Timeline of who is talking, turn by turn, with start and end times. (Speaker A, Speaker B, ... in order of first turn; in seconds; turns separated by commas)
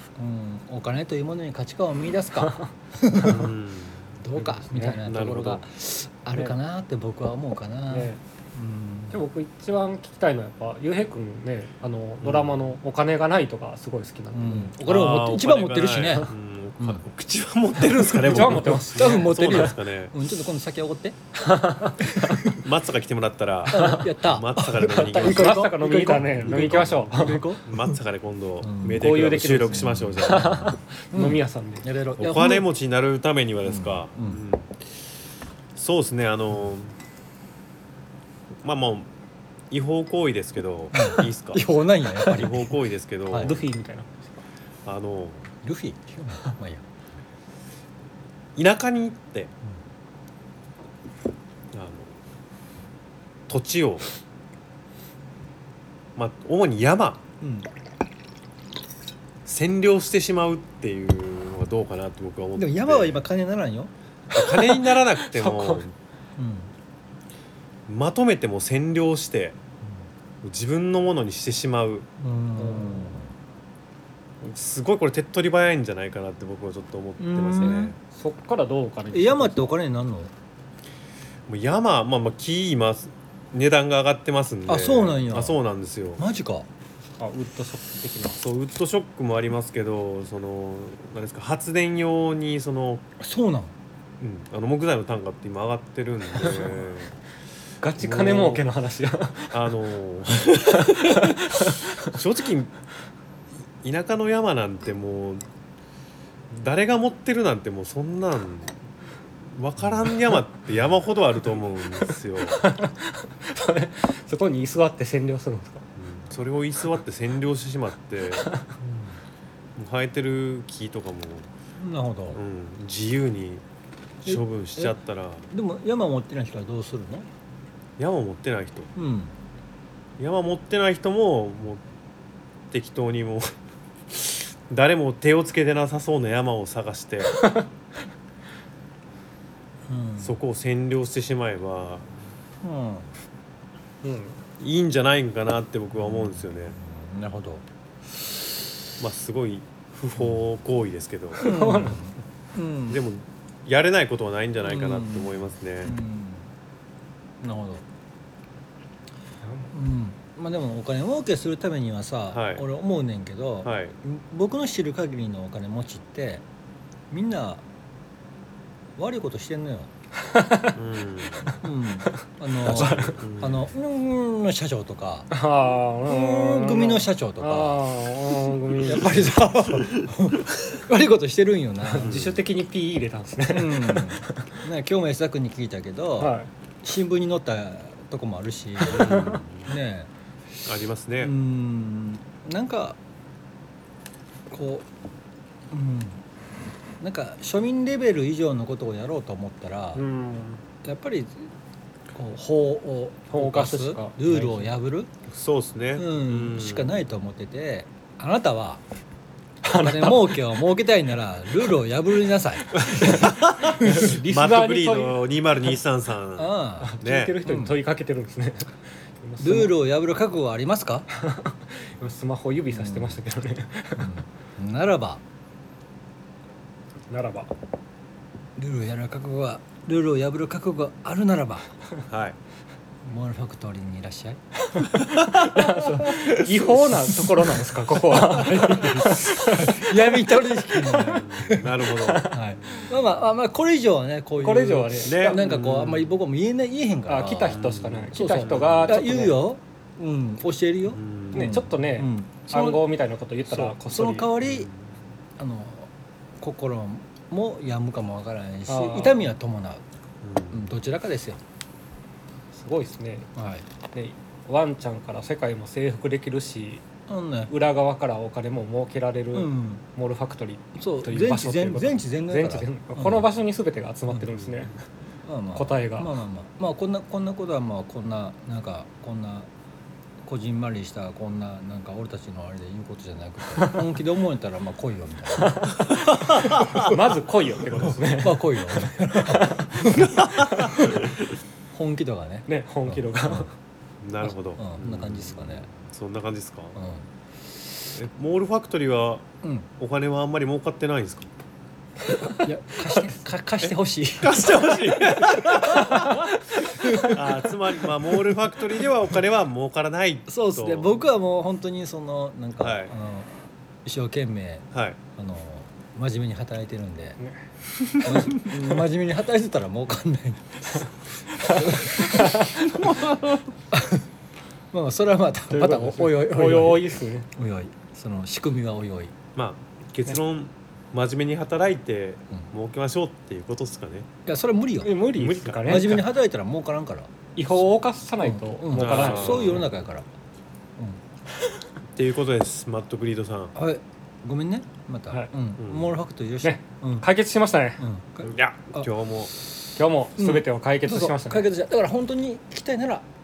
Speaker A: 0.2-3.5, Speaker B: 2.4-3.5, Speaker C: 3.2-4.1, Speaker A: 4.2-9.2, Speaker B: 4.4-5.0, Speaker C: 4.8-5.7, Speaker B: 7.9-8.2, Speaker B: 9.1-14.7, Speaker C: 12.2-12.6, Speaker A: 14.3-17.0, Speaker C: 14.8-20.1, Speaker A: 17.8-21.2, Speaker B: 18.2-19.7, Speaker B: 21.4-22.4, Speaker A: 22.1-22.6, Speaker C: 22.5-25.6, Speaker A: 23.7-28.0, Speaker B: 23.7-24.1, Speaker B: 24.9-27.4, Speaker C: 26.2-30.7, Speaker A: 28.6-29.1, Speaker B: 28.9-31.9, Speaker A: 29.7-32.7, Speaker C: 32.2-34.7, Speaker A: 33.6-34.4, Speaker C: 35.8-36.9, Speaker C: 38.6-39.1, Speaker C: 39.7-41.6, Speaker A: 40.9-43.6, Speaker C: 42.2-43.6, Speaker B: 43.4-44.4, Speaker C: 44.9-45.5, Speaker A: 45.6-46.8, Speaker C: 48.6-49.5, Speaker C: 51.7-52.1, Speaker C: 53.5-54.1, Speaker C: 56.2-57.2, Speaker A: 57.4-57.7, Speaker C: 59.5-63.2, Speaker A: 62.6-63.9, Speaker C: 64.3-65.9, Speaker B: 64.6-65.8, Speaker A: 66.4-66.7, Speaker C: 67.9-69.6, Speaker C: 70.4-72.1, Speaker A: 72.2-73.3, Speaker B: 72.6-73.2, Speaker C: 74.4-78.0, Speaker A: 77.2-78.0, Speaker B: 78.1-79.7, Speaker A: 79.1-80.3, Speaker C: 81.5-86.2, Speaker A: 84.7-85.6, Speaker A: 86.2-86.7, Speaker B: 87.2-88.4, Speaker C: 88.4-93.0, Speaker A: 93.2-93.7, Speaker C: 94.2-97.1, Speaker B: 97.8-99.5, Speaker C: 98.0-98.6, Speaker C: 99.5-102.7, Speaker B: 100.7-102.1, Speaker C: 103.8-105.4, Speaker C: 106.5-108.7, Speaker C: 109.5-112.6, Speaker B: 112.6-115.8, Speaker C: 116.0-118.5, Speaker A: 118.8-119.2, Speaker C: 119.8-121.5, Speaker A: 121.8-122.4, Speaker C: 122.3-123.6, Speaker C: 124.2-125.5, Speaker A: 124.3-125.0, Speaker A: 125.5-127.3, Speaker C: 128.0-128.9, Speaker A: 129.0-129.3, Speaker C: 130.2-131.8, Speaker C: 132.7-133.5, Speaker C: 134.1-137.4, Speaker B: 137.4-137.7, Speaker A: 139.9-140.4, Speaker C: 140.2-142.1, Speaker A: 142.6-143.1, Speaker B: 144.0-144.4, Speaker C: 144.6-146.8, Speaker A: 146.0-147.6, Speaker C: 149.0-151.5, Speaker B: 151.4-152.0, Speaker A: 151.4-153.0, Speaker C: 152.9-156.0, Speaker A: 154.7-156.5, Speaker A: 157.4-157.8, Speaker B: 159.4-159.7, Speaker A: 159.7-166.4, Speaker C: 162.3-162.7, Speaker C: 163.6-163.9, Speaker A: 167.1-167.6, Speaker A: 169.0-169.9, Speaker B: 170.2-170.7, Speaker C: 170.7-171.5, Speaker A: 171.5-175.3, Speaker B: 172.6-173.2, Speaker C: 172.7-173.6, Speaker B: 175.3-179.3, Speaker A: 176.0-177.8, Speaker A: 178.8-182.2, Speaker B: 181.8-184.5, Speaker C: 182.0-182.4, Speaker A: 183.5-190.1, Speaker B: 186.2-186.5, Speaker B: 188.8-189.4, Speaker C: 188.9-189.7, Speaker C: 190.7-191.3, Speaker A: 191.2-193.0, Speaker A: 194.5-194.9, Speaker A: 195.7-196.2, Speaker A: 197.0-200.0, Speaker B: 199.9-200.6, Speaker A: 200.8-201.5, Speaker A: 202.1-205.1, Speaker B: 203.3-204.7, Speaker C: 205.3-207.0, Speaker A: 206.0-208.8, Speaker B: 209.6-210.5, Speaker A: 209.7-214.1, Speaker C: 212.8-217.4, Speaker B: 213.0-215.2, Speaker A: 216.4-216.9, Speaker B: 216.8-219.8, Speaker A: 217.4-217.8, Speaker A: 219.4-221.1, Speaker B: 221.1-224.1, Speaker A: 222.7-223.2, Speaker A: 224.0-225.2, Speaker B: 227.1-227.5, Speaker A: 228.6-231.7, Speaker C: 232.1-232.4, Speaker A: 233.0-234.4, Speaker B: 234.7-239.9, Speaker A: 237.9-241.7, Speaker C: 241.0-243.0, Speaker B: 242.0-242.3, Speaker A: 242.3-252.9, Speaker B: 244.4-245.5, Speaker C: 245.1-246.1, Speaker B: 247.1-249.5, Speaker C: 247.5-249.1, Speaker C: 250.9-251.6, Speaker B: 251.3-254.3, Speaker A: 253.5-254.7, Speaker C: 254.4-254.8, Speaker A: 255.4-259.8, Speaker B: 258.7-259.3, Speaker C: 260.2-260.7, Speaker A: 260.5-261.4, Speaker B: 262.5-263.3, Speaker A: 263.4-263.7, Speaker B: 263.9-266.8, Speaker A: 267.1-267.5, Speaker B: 267.5-274.8, Speaker A: 269.3-269.8, Speaker A: 270.8-273.3, Speaker A: 275.2-279.5, Speaker B: 275.6-276.2, Speaker A: 280.2-285.9, Speaker B: 285.4-288.6, Speaker C: 286.2-286.9, Speaker A: 286.6-287.0, Speaker A: 288.2-291.1, Speaker B: 289.1-290.7, Speaker C: 290.1-291.1, Speaker A: 291.7-293.5, Speaker B: 292.5-293.5, Speaker C: 294.0-296.8, Speaker A: 294.2-295.7, Speaker A: 296.8-297.1, Speaker C: 297.9-299.3, Speaker C: 299.8-301.3, Speaker A: 302.0-306.0, Speaker C: 303.6-306.4, Speaker A: 306.7-307.4, Speaker B: 306.8-307.2, Speaker C: 307.1-311.0, Speaker A: 308.1-308.4, Speaker A: 310.3-317.2, Speaker C: 312.6-312.9, Speaker B: 317.2-318.5, Speaker A: 318.0-320.9, Speaker B: 320.8-323.0, Speaker A: 321.5-322.6, Speaker C: 322.9-323.3, Speaker A: 323.7-324.1, Speaker A: 324.7-329.1, Speaker B: 325.5-327.3, Speaker C: 329.4-334.1, Speaker A: 334.3-334.9, Speaker B: 334.8-336.1, Speaker C: 335.1-336.1, Speaker A: 335.7-337.1, Speaker B: 337.4-339.6, Speaker A: 338.2-340.1, Speaker C: 338.7-339.7, Speaker C: 341.9-343.5, Speaker A: 343.6-347.1, Speaker C: 345.6-345.9, Speaker B: 346.4-347.8, Speaker A: 347.8-348.9, Speaker C: 348.2-349.3, Speaker B: 349.8-351.5, Speaker A: 350.2-353.1